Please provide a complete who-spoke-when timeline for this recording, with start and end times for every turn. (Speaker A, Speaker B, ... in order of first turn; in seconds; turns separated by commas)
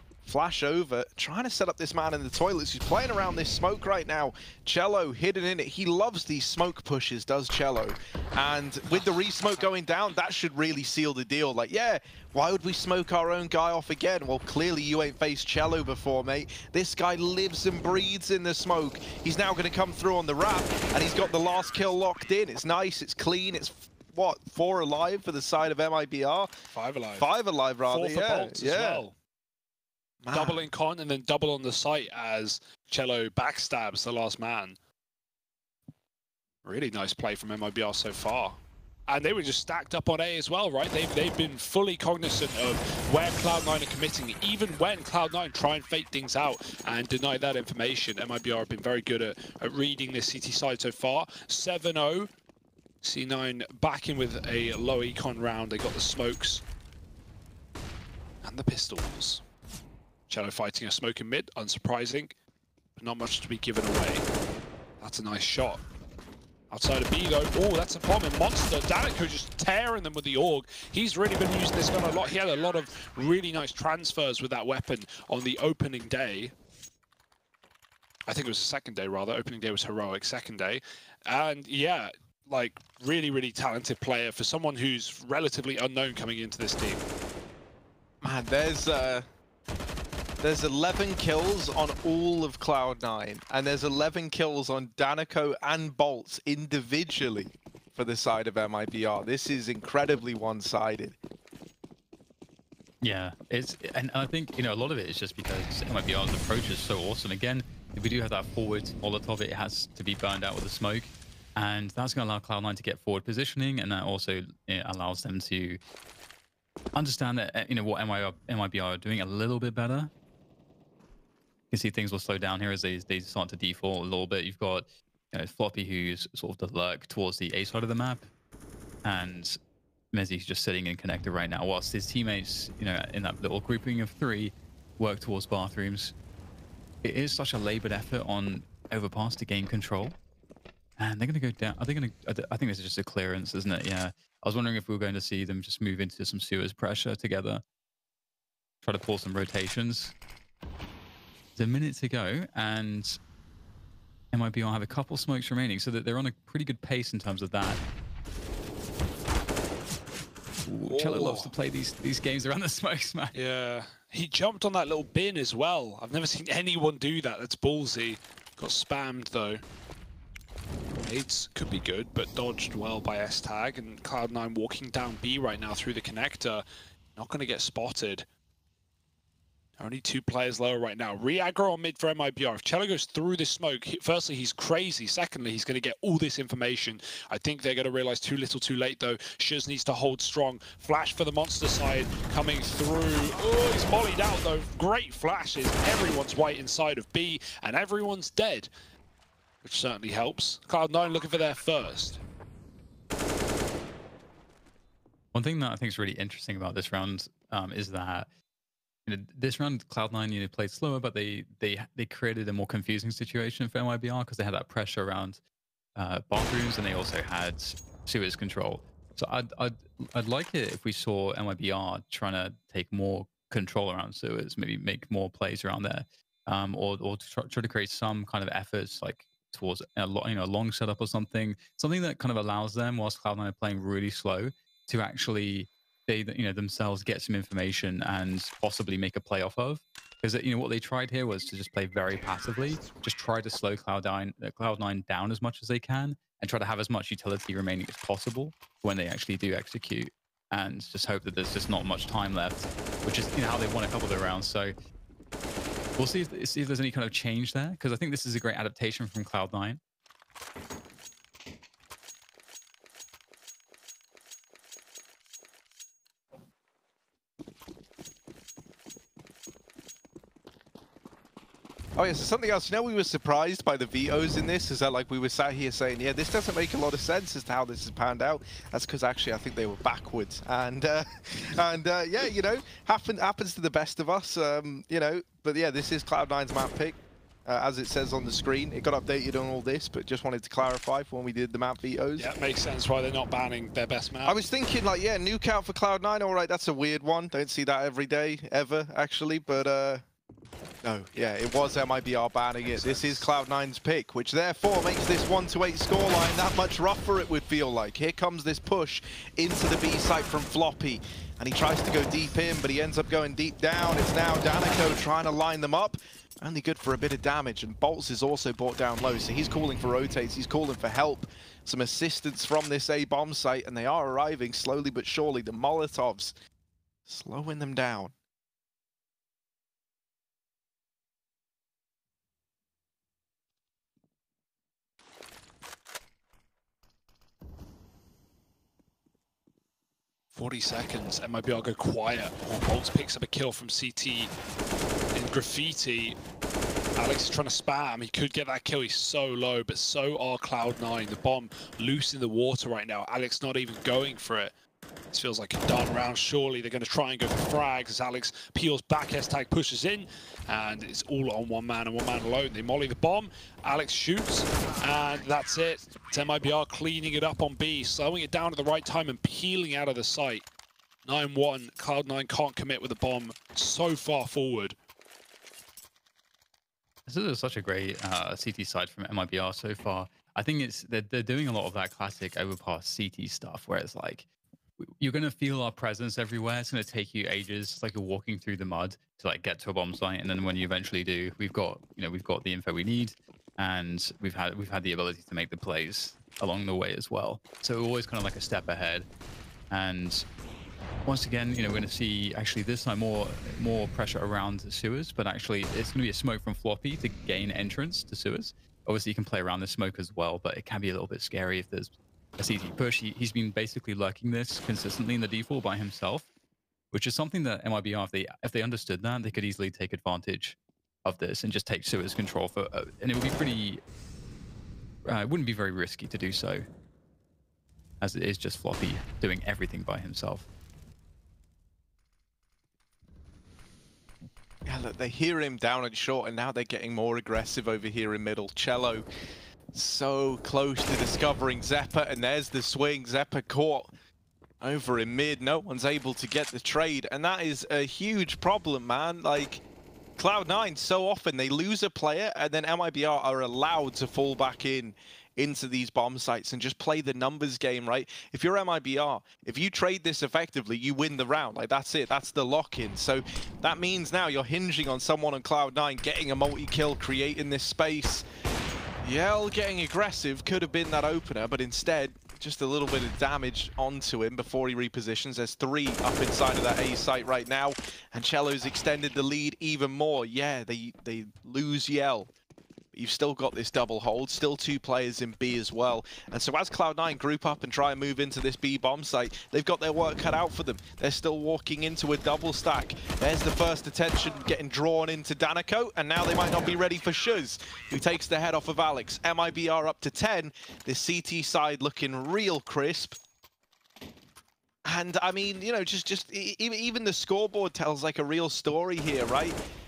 Speaker A: 0.2-26.5, Speaker B: 8.9-9.7, Speaker B: 26.7-27.3, Speaker A: 27.2-29.0, Speaker B: 27.9-29.1, Speaker A: 30.2-30.7, Speaker B: 30.3-34.8, Speaker B: 36.6-52.3, Speaker B: 53.0-56.6, Speaker B: 58.4-59.4, Speaker B: 60.3-62.4, Speaker B: 63.0-64.3, Speaker B: 65.0-65.8, Speaker B: 66.7-76.5, Speaker B: 78.3-87.1, Speaker A: 88.2-89.3, Speaker A: 90.4-101.2, Speaker C: 103.0-115.8, Speaker C: 117.0-120.1, Speaker C: 121.7-128.3, Speaker C: 129.0-129.6, Speaker C: 130.1-136.2, Speaker C: 137.0-140.2, Speaker C: 141.0-147.6, Speaker C: 148.8-150.2, Speaker C: 151.6-153.2, Speaker C: 154.3-157.8, Speaker C: 160.7-163.3, Speaker B: 160.9-161.6, Speaker B: 163.3-169.7, Speaker B: 171.1-176.7, Speaker B: 177.2-178.3, Speaker B: 179.8-198.7, Speaker B: 199.6-202.2, Speaker C: 205.3-208.3, Speaker C: 209.1-215.4, Speaker C: 216.0-254.8, Speaker C: 256.0-259.8, Speaker A: 272.0-292.3, Speaker B: 292.2-294.4, Speaker A: 294.2-300.1, Speaker A: 300.8-326.3, Speaker B: 302.7-303.3, Speaker A: 327.1-328.1, Speaker B: 340.3-344.3, Speaker B: 345.1-346.2, Speaker B: 347.0-354.5, Speaker B: 355.1-370.5, Speaker B: 371.1-374.8, Speaker C: 377.1-384.3, Speaker C: 384.8-399.1, Speaker C: 399.7-400.3, Speaker C: 401.1-416.3, Speaker C: 416.9-423.8, Speaker C: 425.1-426.6, Speaker C: 428.0-430.5, Speaker A: 434.7-439.1, Speaker A: 439.7-443.9, Speaker A: 444.6-449.6, Speaker A: 450.2-468.3, Speaker A: 469.0-482.3, Speaker A: 482.9-503.2, Speaker A: 504.9-509.6